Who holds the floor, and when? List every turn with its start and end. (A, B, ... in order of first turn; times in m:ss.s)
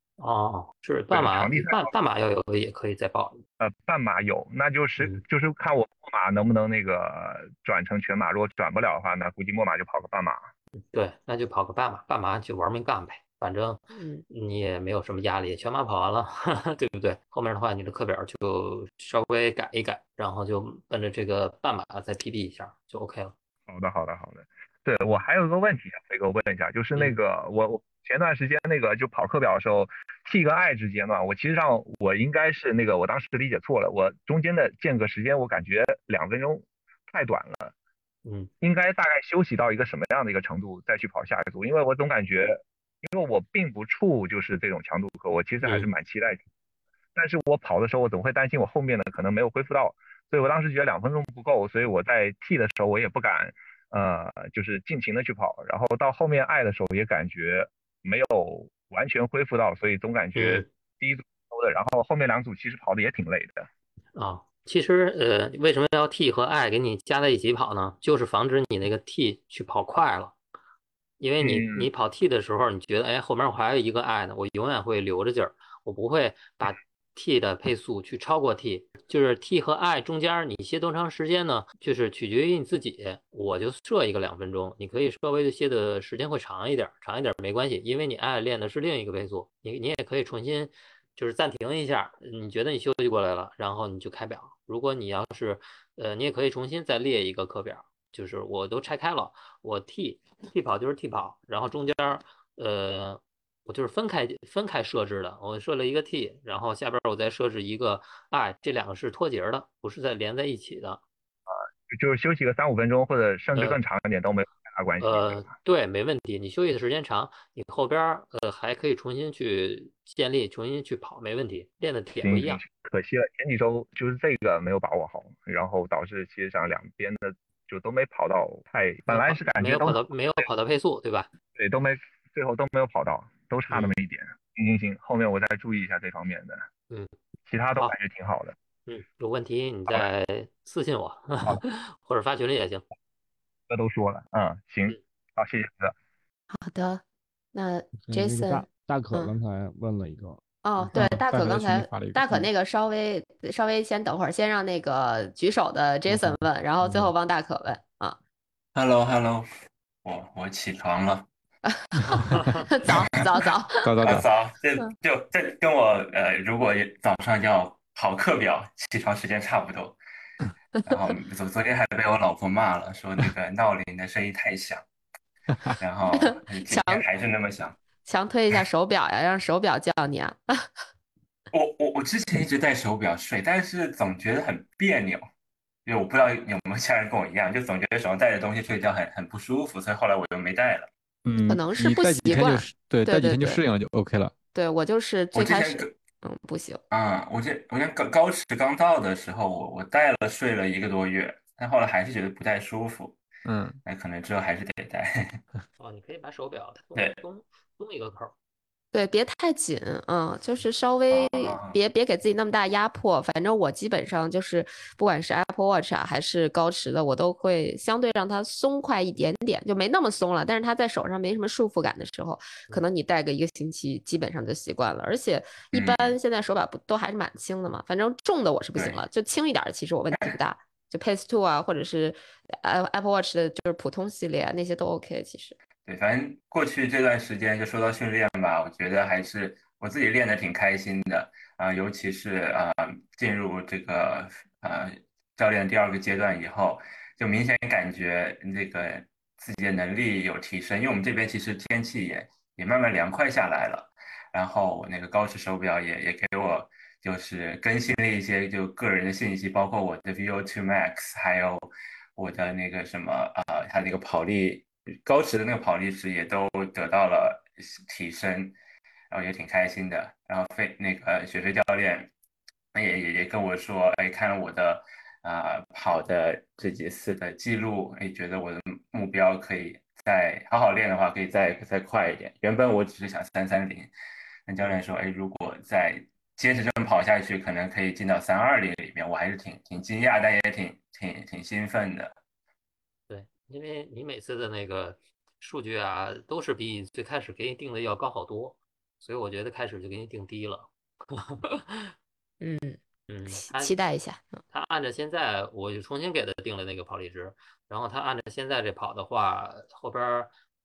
0:00.2-0:03.4 A
0:01.1-0:01.9 B
0:03.6-0:10.4 B
0:10.8-0:23.3 A
0:13.9-0:14.2 C
0:23.7-0:37.7 B
0:26.9-0:27.2 A
0:38.2-0:38.5 A
0:38.6-0:46.4 B
0:45.6-0:45.9 A
0:47.2-1:03.7 B
1:00.3-1:00.7 A
1:04.1-1:10.3 A
1:11.2-1:51.0 A
1:11.4-1:11.9 B
1:51.5-1:55.4 B
1:53.5-1:53.8 A
1:55.0-2:02.6 A
2:02.2-2:10.1 B
2:09.1-2:11.3 A
2:11.6-2:16.6 B
2:13.7-2:14.0 A
2:17.5-2:18.6 B
2:18.9-2:22.8 A
2:23.7-2:25.9 B
2:26.5-2:27.0 C
2:27.5-2:29.3 C
2:28.0-2:30.4 D
2:30.6-2:38.2 C
2:30.8-2:32.5 E
2:40.7-2:41.1 F
2:41.7-2:44.0 C
2:42.1-2:42.3 E
2:43.8-2:44.3 E
2:44.7-2:49.8 F
2:51.1-2:54.7 F
2:56.1-2:57.0 C
2:57.0-2:57.7 F
2:58.0-3:00.7 C
3:01.7-3:05.1 F
3:05.9-3:10.8 F
3:11.2-3:14.3 E
3:11.5-3:13.6 C
3:14.5-3:16.8 C
3:15.4-3:15.8 F
3:16.9-3:23.0 F
3:23.4-3:23.8 E
3:24.0-3:25.0 F
3:25.8-3:28.3 A
3:28.9-3:55.6 C
3:31.1-3:31.7 F
3:45.8-3:46.1 F
3:55.9-4:04.8 F
4:05.4-4:21.6 F
4:22.2-4:28.5 F
4:29.1-4:32.1 F
4:32.7-4:43.9 F
4:44.5-4:52.1 F
4:53.1-5:01.9 A
5:02.4-5:02.8 C
5:03.1-5:03.7 A
5:03.3-5:04.4 C
5:04.5-5:10.3 A